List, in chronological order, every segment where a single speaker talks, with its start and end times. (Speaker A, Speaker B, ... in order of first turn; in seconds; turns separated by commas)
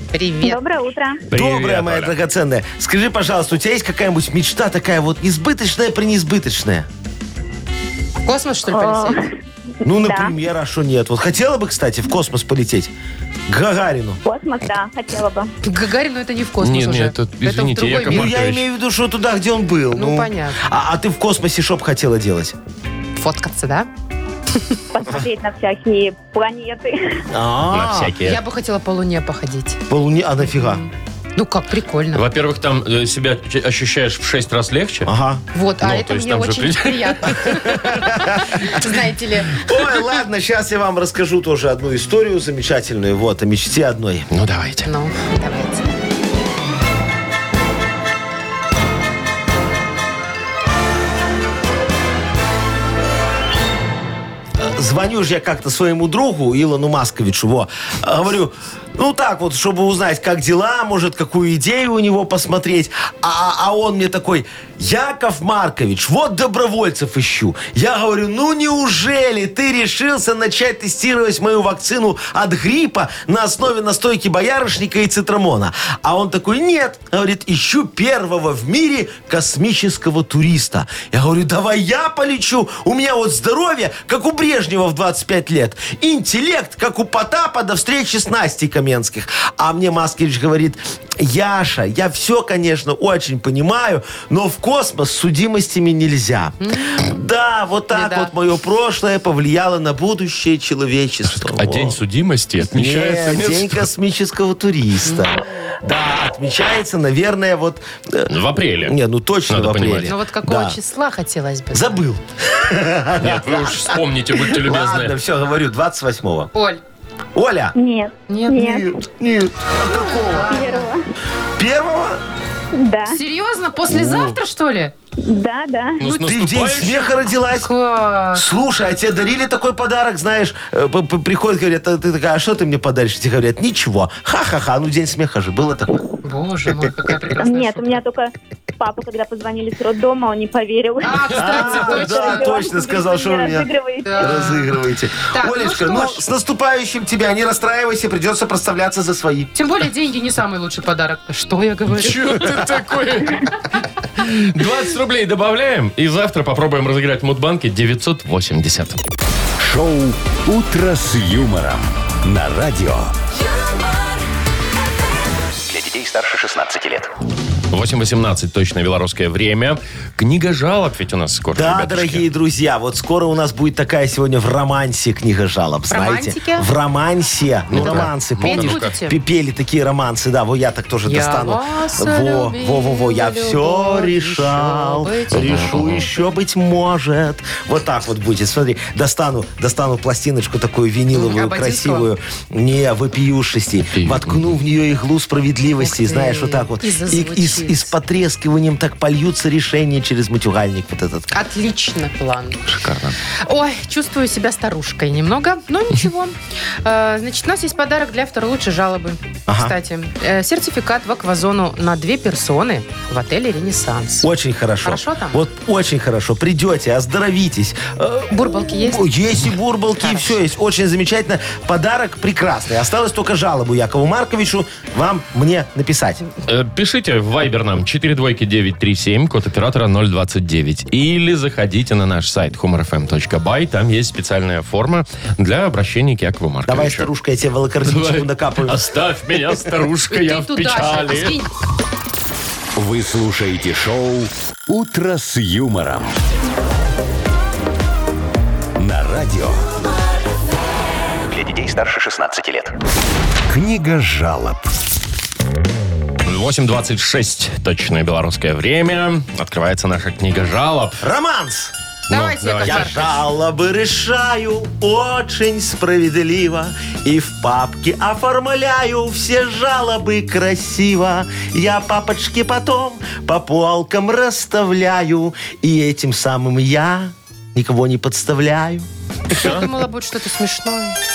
Speaker A: 0.1-0.6, Speaker B: 0.4-1.2, Speaker C: 1.3-2.1, Speaker D: 1.3-6.9, Speaker A: 8.3-9.2, Speaker B: 8.7-9.3, Speaker D: 9.8-12.9, Speaker B: 9.9-10.3, Speaker D: 13.5-14.2, Speaker B: 14.2-15.5, Speaker A: 15.6-18.3, Speaker C: 16.6-18.6, Speaker D: 18.1-22.6, Speaker A: 19.9-20.6, Speaker A: 23.2-23.9, Speaker B: 24.9-27.3, Speaker D: 27.3-28.2, Speaker C: 27.7-28.4, Speaker A: 28.2-29.8, Speaker D: 29.9-30.8, Speaker A: 30.4-32.2, Speaker C: 32.1-35.1, Speaker D: 35.0-35.4, Speaker A: 35.5-39.7, Speaker C: 35.8-37.8, Speaker D: 37.7-38.6, Speaker D: 39.6-44.3, Speaker C: 44.3-44.9, Speaker A: 44.9-45.9, Speaker D: 54.6-102.0, Speaker A: 96.6-97.1, Speaker A: 97.9-98.3, Speaker C: 101.3-103.8, Speaker D: 102.7-110.8, Speaker C: 108.3-109.0, Speaker C: 109.5-110.1, Speaker A: 110.0-112.0, Speaker D: 111.7-116.5, Speaker C: 113.2-115.2, Speaker A: 116.5-116.8, Speaker D: 117.3-117.7, Speaker B: 117.8-118.9, Speaker A: 118.3-118.8, Speaker D: 118.6-120.7, Speaker A: 119.8-120.9, Speaker B: 120.5-121.0, Speaker D: 121.6-122.2, Speaker B: 122.7-123.2, Speaker A: 123.1-124.9, Speaker B: 125.2-126.0, Speaker C: 126.0-127.2, Speaker D: 126.1-127.7, Speaker A: 127.5-128.4, Speaker D: 128.3-136.0, Speaker A: 136.2-138.0, Speaker B: 137.4-144.6, Speaker A: 141.0-142.6, Speaker D: 141.3-149.5, Speaker A: 144.1-146.2, Speaker A: 149.6-152.5, Speaker C: 151.9-159.0, Speaker E: 159.6-163.1, Speaker F: 165.7-167.1, Speaker C: 167.7-172.2, Speaker D: 171.6-201.3, Speaker A: 175.9-176.7, Speaker C: 177.7-178.9, Speaker A: 177.8-179.2, Speaker A: 181.1-186.2, Speaker C: 185.3-186.1, Speaker A: 191.1-192.1, Speaker C: 193.9-194.5, Speaker A: 195.8-197.9, Speaker A: 201.3-202.6, Speaker C: 202.7-203.2, Speaker A: 203.5-214.3, Speaker D: 209.5-209.8, Speaker D: 214.2-226.2, Speaker A: 214.8-215.4, Speaker A: 218.3-219.2, Speaker A: 220.0-220.4, Speaker C: 226.5-237.1, Speaker D: 236.7-239.0, Speaker C: 237.8-241.4, Speaker A: 240.1-241.5, Speaker E: 242.8-246.1, Speaker E: 248.8-249.6, Speaker F: 251.3-252.8, Speaker E: 253.5-254.7, Speaker C: 256.2-261.0, Speaker D: 261.0-261.7, Speaker A: 262.1-263.1, Speaker C: 262.1-263.1, Speaker D: 262.6-278.9, Speaker A: 279.3-281.0, Speaker C: 279.4-279.7